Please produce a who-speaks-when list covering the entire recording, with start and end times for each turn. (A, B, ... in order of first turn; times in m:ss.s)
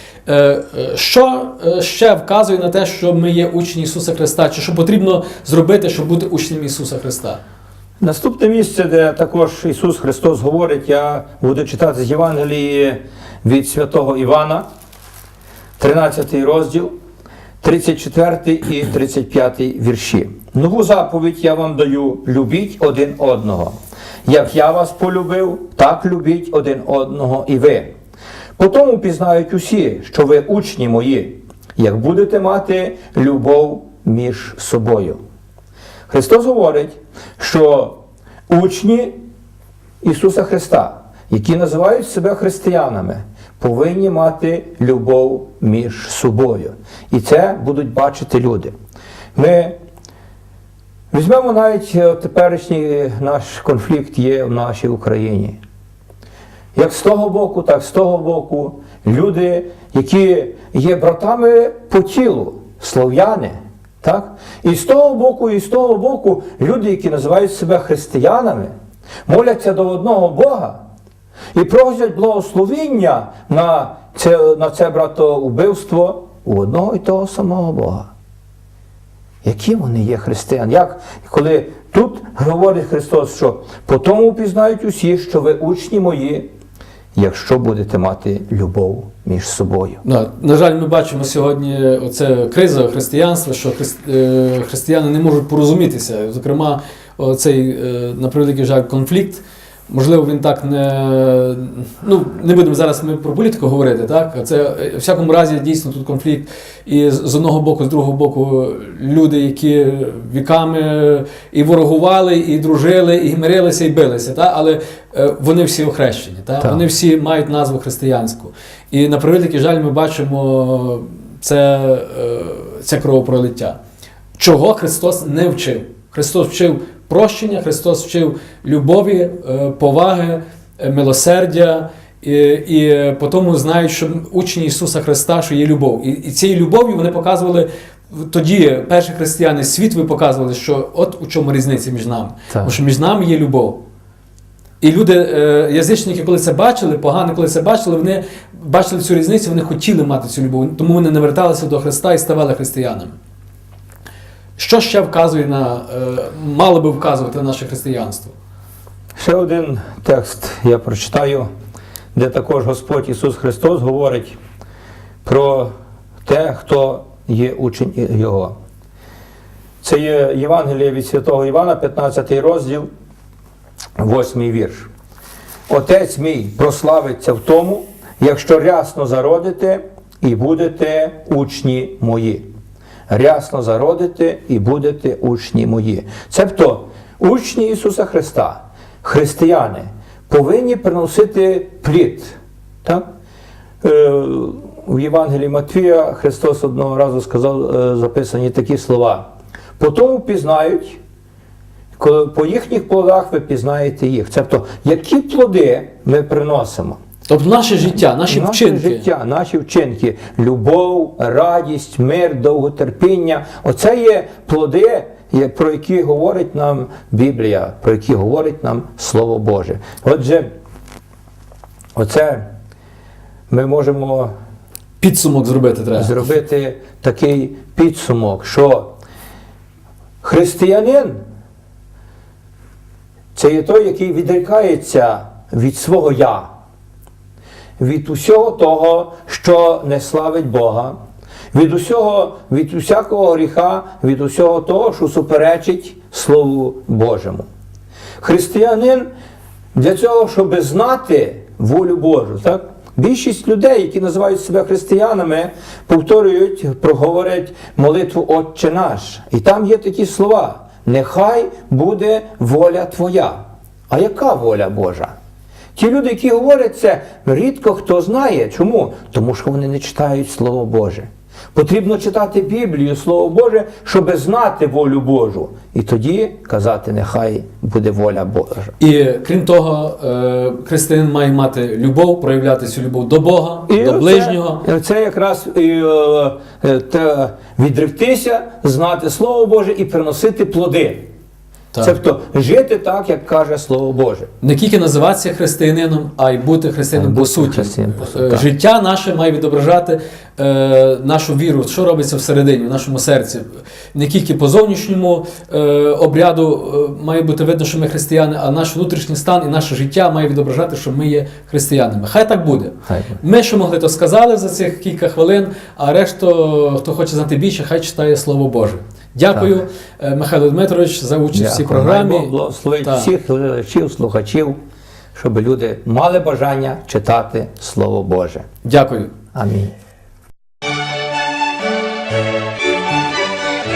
0:00.3-0:07.4 A
0:08.0-0:14.6 B
0:15.8-0:16.9 B
0:17.6-0:23.8 B
0:24.3-0:27.9 B
0:28.6-0:35.2 B
0:36.1-0:39.2 B
0:40.0-0:48.7 B
0:49.4-0:49.8 B
0:51.1-0:55.6 B
0:56.8-1:08.7 B
1:09.3-1:10.8 B
1:11.5-1:18.1 B
1:19.4-1:26.5 B
1:27.2-1:30.0 B
1:30.0-2:03.8 A
2:04.4-2:23.8 A
2:24.8-2:33.2 A
2:34.6-2:38.4 A
2:39.2-2:41.5 B
2:42.2-2:44.4 B
2:45.2-2:45.7 B
2:46.2-2:48.5 B
2:49.8-2:52.9 B
2:54.0-2:54.9 B
2:55.7-3:02.5 B
3:03.1-3:13.0 B
3:13.8-3:21.0 B
3:22.0-3:27.0 B
3:27.3-3:29.1 A
3:27.8-3:40.5 B
3:42.0-3:42.4 B
3:43.5-3:44.3 B
3:45.0-3:46.3 A
3:46.0-3:49.0 B
3:50.2-3:51.2 B
3:53.4-3:56.5 B
3:57.8-4:01.0 B
4:01.5-4:07.5 B
4:08.2-4:09.1 B
4:09.8-4:25.1 B
4:25.8-4:38.8 B
4:38.8-4:44.7 A
4:43.7-4:51.1 B
4:51.8-4:54.3 B
4:54.4-5:23.1 A
4:56.9-4:58.5 B
5:12.9-5:13.2 B
5:21.3-5:24.6 B
5:25.2-5:28.4 B
5:28.6-5:29.1 A
5:29.3-5:29.7 B